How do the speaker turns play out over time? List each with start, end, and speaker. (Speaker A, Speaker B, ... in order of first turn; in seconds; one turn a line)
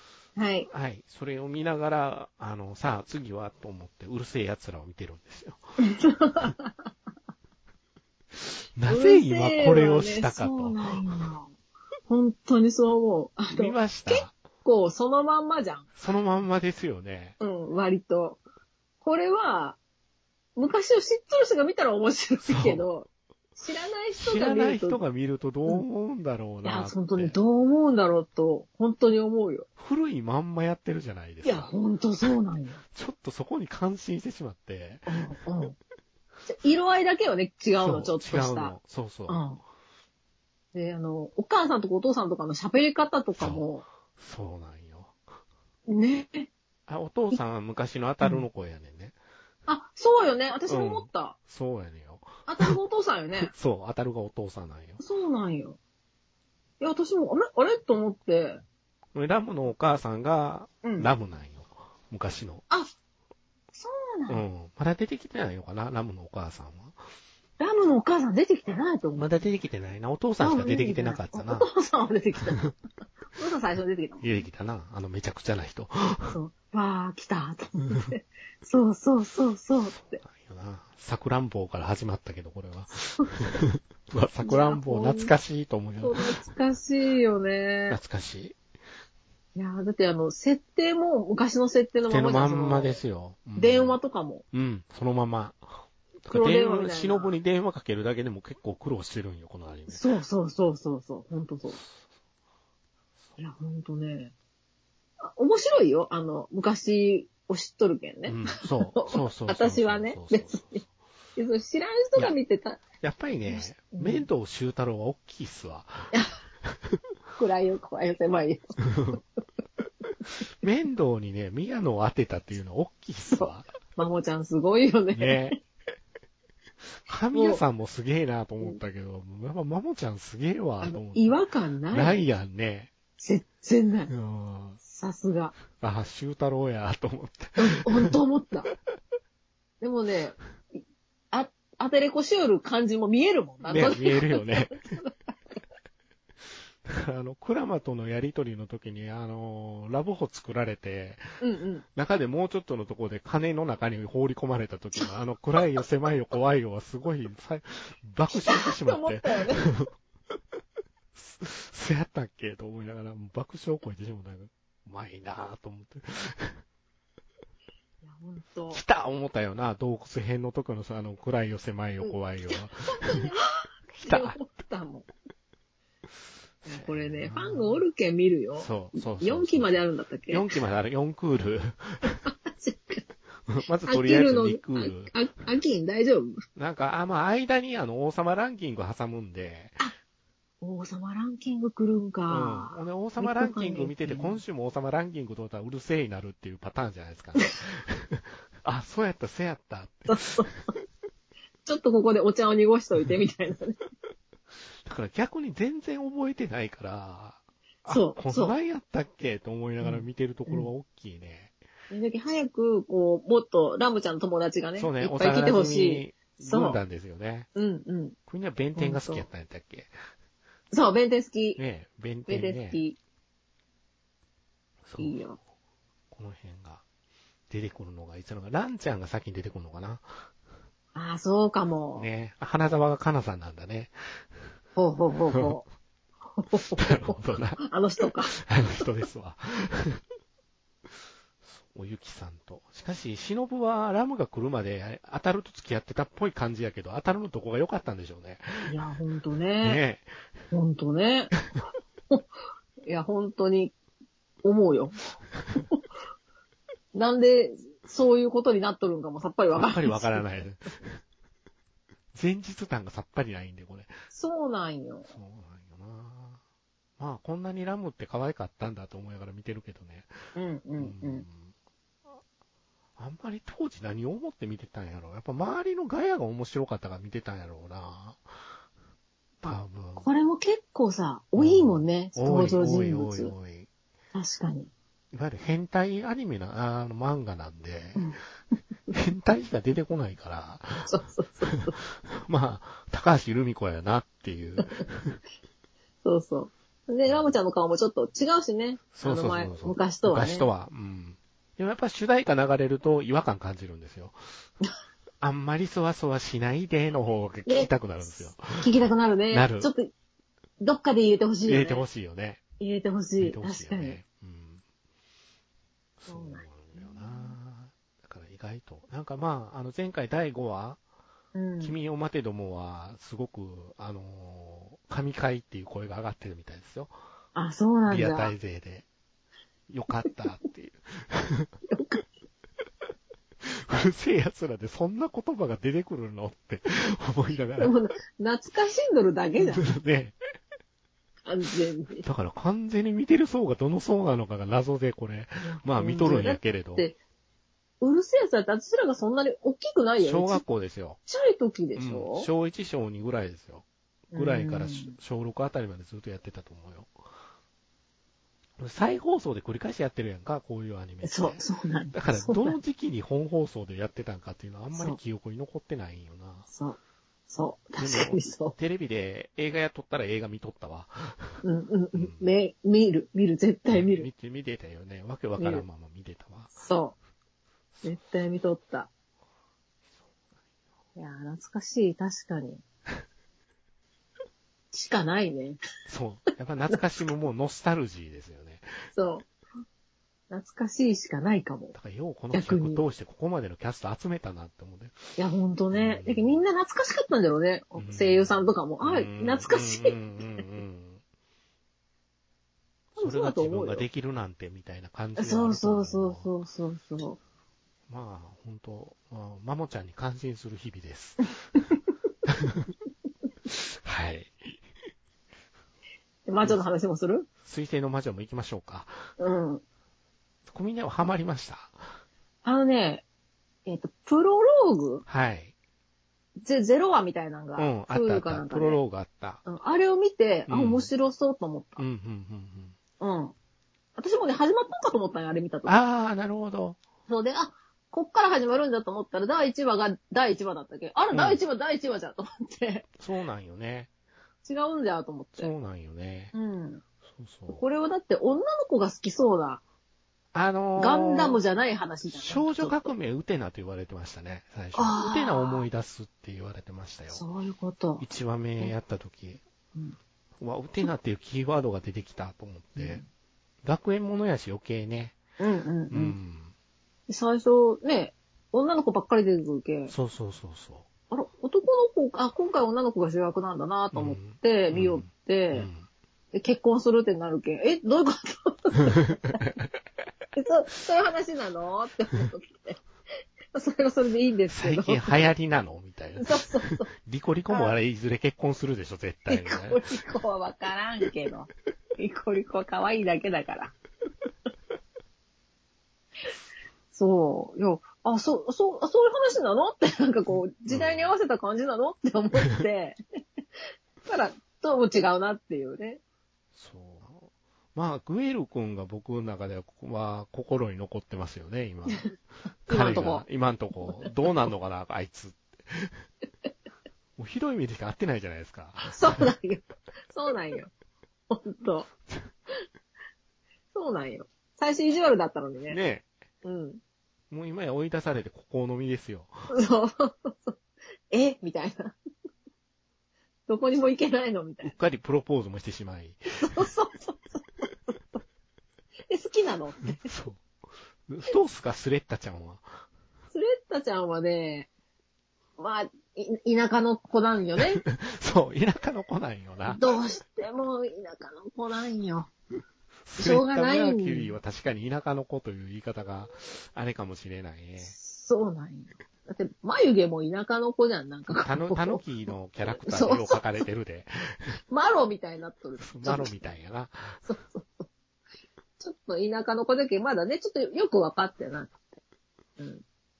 Speaker A: 0.4-0.7
Speaker B: 0.7-5.6
Speaker A: 5.8-6.9
Speaker B: 8.3-11.2
Speaker A: 8.9-11.5
Speaker A: 12.1-15.9
Speaker B: 13.5-14.3
Speaker B: 15.9-17.4
Speaker A: 17.4-18.4
Speaker A: 19.0-19.8
Speaker A: 20.6-25.0
Speaker B: 22.4-22.8
Speaker B: 24.1-27.4
Speaker A: 26.6-29.7
Speaker B: 29.8-31.7
Speaker A: 31.4-32.8
Speaker B: 32.9-35.2
Speaker A: 35.1-35.8
Speaker A: 36.5-38.8
Speaker B: 37.8-39.4
Speaker A: 39.3-39.6
Speaker A: 40.7-43.8
Speaker B: 43.4-43.6
Speaker B: 44.2-45.1
Speaker A: 45.9-46.5
Speaker B: 46.9-49.1
Speaker A: 49.7-51.4
Speaker B: 50.7-52.7
Speaker A: 52.5-53.5
Speaker B: 53.4-55.0
Speaker A: 55.0-55.8
Speaker A: 56.8-58.6
Speaker B: 59.1-62.6
Speaker A: 60.8-61.1
Speaker A: 63.7-64.4
Speaker B: 64.3-67.0
Speaker A: 67.6-69.3
Speaker B: 69.2-71.7
Speaker A: 70.4-72.7
Speaker A: 73.3-74.3
Speaker B: 74.2-76.4
Speaker A: 76.3-80.2
Speaker B: 80.0-86.4
Speaker A: 84.4-85.3
Speaker A: 86.0-88.0
Speaker B: 87.9-88.5
Speaker A: 89.5-93.0
Speaker B: 92.1-94.0
Speaker A: 93.5-94.4
Speaker B: 94.5-95.7
Speaker B: 96.2-100.0
Speaker A: 96.3-97.3
Speaker A: 99.9-101.8
Speaker A: 103.4-104.3
Speaker A: 105.2-110.8
Speaker B: 108.2-110.9
Speaker A: 111.3-112.8
Speaker B: 113.0-116.1
Speaker A: 113.5-114.3
Speaker A: 116.1-116.4
Speaker A: 117.4-119.2
Speaker B: 118.9-119.2
Speaker B: 120.6-123.7
Speaker A: 123.3-125.6
Speaker B: 125.1-125.6
Speaker B: 127.0-131.4
Speaker A: 127.3-127.6
Speaker A: 130.8-132.2
Speaker B: 131.9-132.9
Speaker A: 133.2-134.1
Speaker B: 134.1-134.8
Speaker A: 134.8-135.6
Speaker B: 135.8-138.1
Speaker A: 137.6-138.7
Speaker A: 139.8-140.4
Speaker A: 141.3-145.6
Speaker B: 143.7-144.8
Speaker B: 146.8-151.2
Speaker A: 151.4-151.8
Speaker B: 151.9-159.9
Speaker A: 158.3-159.7
Speaker B: 161.1-166.6
Speaker A: 168.0-168.8
Speaker B: 168.7-173.3
Speaker A: 172.0-175.1
Speaker B: 173.9-174.4
Speaker B: 176.6-177.8
Speaker A: 176.7-180.4
Speaker B: 178.6-182.2
Speaker A: 182.2-183.0
Speaker B: 183.5-185.1
Speaker A: 183.8-186.4
Speaker B: 186.6-189.8
Speaker A: 190.6-194.4
Speaker B: 192.3-200.4
Speaker A: 200.1-200.5
Speaker A: 201.6-203.8
Speaker B: 204.8-211.5
Speaker A: 207.9-208.5
Speaker A: 209.8-210.7
Speaker A: 211.9-216.8
Speaker B: 214.8-217.5
Speaker A: 217.5-218.2
Speaker B: 218.3-219.9
Speaker A: 218.8-219.2
Speaker A: 220.7-221.6
Speaker B: 221.6-222.8
Speaker A: 222.3-222.9
Speaker B: 224.8-225.2
Speaker A: 225.0-225.4
Speaker B: 226.1-226.8
Speaker B: 227.5-230.2
Speaker A: 230.9-232.1
Speaker B: 231.9-234.0
Speaker A: 234.8-235.6
Speaker B: 235.3-235.6
Speaker A: 236.3-238.4
Speaker B: 236.8-240.0
Speaker B: 241.4-248.7
Speaker A: 248.7-249.8
Speaker B: 249.6-250.1
Speaker A: 250.5-251.3
Speaker A: 252.9-253.7
Speaker A: 254.4-255.0
Speaker A: 256.9-260.2
Speaker B: 259.5-261.0
Speaker B: 262.1-263.9
Speaker A: 264.1-265.1
Speaker B: 265.1-266.4
Speaker B: 267.0-270.1
Speaker A: 270.3-271.2
Speaker B: 270.8-271.5
Speaker B: 273.0-278.2
Speaker B: 279.4-280.1
Speaker A: 279.5-283.3
Speaker B: 281.4-283.7
Speaker A: 284.1-284.7
Speaker B: 285.1-288.1
Speaker B: 288.9-290.9
Speaker A: 290.9-291.8
Speaker B: 292.0-295.2
Speaker A: 296.0-300.5
Speaker B: 297.0-297.3
Speaker B: 298.9-304.2
Speaker B: 305.2-308.7
Speaker A: 307.4-307.7
Speaker A: 308.5-309.9
Speaker B: 309.3-309.7
Speaker A: 310.6-311.8
Speaker B: 311.4-312.4
Speaker A: 312.6-314.0
Speaker B: 313.2-314.6
Speaker B: 316.0-320.8
Speaker A: 316.1-317.3
Speaker A: 321.3-321.8
Speaker B: 321.6-326.9
Speaker A: 327.3-328.3
Speaker B: 327.9-328.9
Speaker B: 329.7-331.5
Speaker A: 331.7-332.0
Speaker B: 333.4-337.7
Speaker A: 337.6-339.7
Speaker B: 339.4-340.1
Speaker A: 341.2-342.0
Speaker B: 342.0-346.9
Speaker A: 345.4-346.9
Speaker A: 347.8-350.4
Speaker B: 350.0-351.0
Speaker A: 351.1-352.3
Speaker B: 351.8-356.9
Speaker A: 354.1-354.9
Speaker B: 358.6-366.5
Speaker A: 361.0-362.6
Speaker A: 364.7-365.0
Speaker A: 366.5-366.8
Speaker A: 367.3-368.6
Speaker B: 367.8-371.4
Speaker A: 371.4-374.1
Speaker B: 371.9-372.3
Speaker B: 373.7-376.5
Speaker A: 375.4-375.6
Speaker A: 376.6-376.9
Speaker A: 377.8-378.9
Speaker A: 380.9-382.6
Speaker A: 384.7-385.6
Speaker B: 385.9-388.7
Speaker A: 388.9-389.3
Speaker A: 390.3-391.7
Speaker B: 391.7-395.0
Speaker A: 392.3-392.8
Speaker A: 395.2-400.0
Speaker B: 395.7-396.4
Speaker B: 397.8-401.0
Speaker B: 402.9-406.3
Speaker A: 403.0-403.8
Speaker A: 405.2-407.2
Speaker B: 407.9-411.6
Speaker B: 412.3-412.7
Speaker B: 413.5-414.6
Speaker A: 416.2-417.3
Speaker B: 417.4-419.0
Speaker A: 419.2-419.6
Speaker B: 420.4-421.8
Speaker A: 422.4-423.0
Speaker A: 423.6-425.0
Speaker B: 425.1-425.5
Speaker A: 426.4-428.8
Speaker B: 427.6-429.4
Speaker A: 429.4-431.8
Speaker B: 430.5-430.9
Speaker B: 431.8-432.7
Speaker A: 433.0-433.3
Speaker A: 434.0-435.7
Speaker B: 435.6-436.8
Speaker A: 437.1-442.9
Speaker B: 441.1-441.4
Speaker B: 443.0-443.9
Speaker A: 444.4-445.5
Speaker B: 445.4-446.3
Speaker A: 446.3-446.8
Speaker B: 447.1-447.6
Speaker A: 447.5-449.6
Speaker B: 450.3-451.4
Speaker A: 450.8-452.9
Speaker B: 452.1-457.2
Speaker A: 454.7-455.6
Speaker A: 457.1-458.0
Speaker B: 458.0-459.4
Speaker B: 460.4-463.0
Speaker A: 462.8-463.1
Speaker B: 463.6-465.2
Speaker A: 465.4-466.2
Speaker B: 465.9-466.5
Speaker A: 467.1-469.9
Speaker B: 469.9-470.9
Speaker A: 471.1-475.7
Speaker B: 473.9-475.8
Speaker A: 476.3-479.4
Speaker A: 480.3-482.8
Speaker A: 483.5-485.3
Speaker B: 484.5-489.8
Speaker A: 486.2-486.9
Speaker A: 489.3-493.7
Speaker A: 496.9-503.0
Speaker B: 500.7-501.1
Speaker A: 504.0-506.0
Speaker B: 506.5-512.1
Speaker B: 512.7-516.0
Speaker A: 512.7-513.2
Speaker B: 517.2-519.2
Speaker A: 518.9-520.7
Speaker A: 521.3-521.9
Speaker A: 523.7-525.8
Speaker B: 525.7-526.1
Speaker A: 526.4-526.8
Speaker B: 527.3-529.3
Speaker A: 529.5-530.6
Speaker A: 531.1-531.9
Speaker A: 533.5-534.7
Speaker B: 534.6-536.6
Speaker A: 536.4-538.2
Speaker A: 539.1-540.0
Speaker B: 539.9-540.4
Speaker B: 541.1-542.7
Speaker A: 543.3-544.7
Speaker A: 545.6-547.8
Speaker B: 547.8-549.9
Speaker A: 549.7-552.3
Speaker B: 553.0-557.9
Speaker A: 553.2-554.4
Speaker A: 557.8-562.0
Speaker B: 561.3-564.6
Speaker A: 562.8-563.6
Speaker A: 564.7-566.4
Speaker B: 565.8-567.2
Speaker A: 567.2-567.9
Speaker A: 568.8-571.9
Speaker A: 572.6-572.8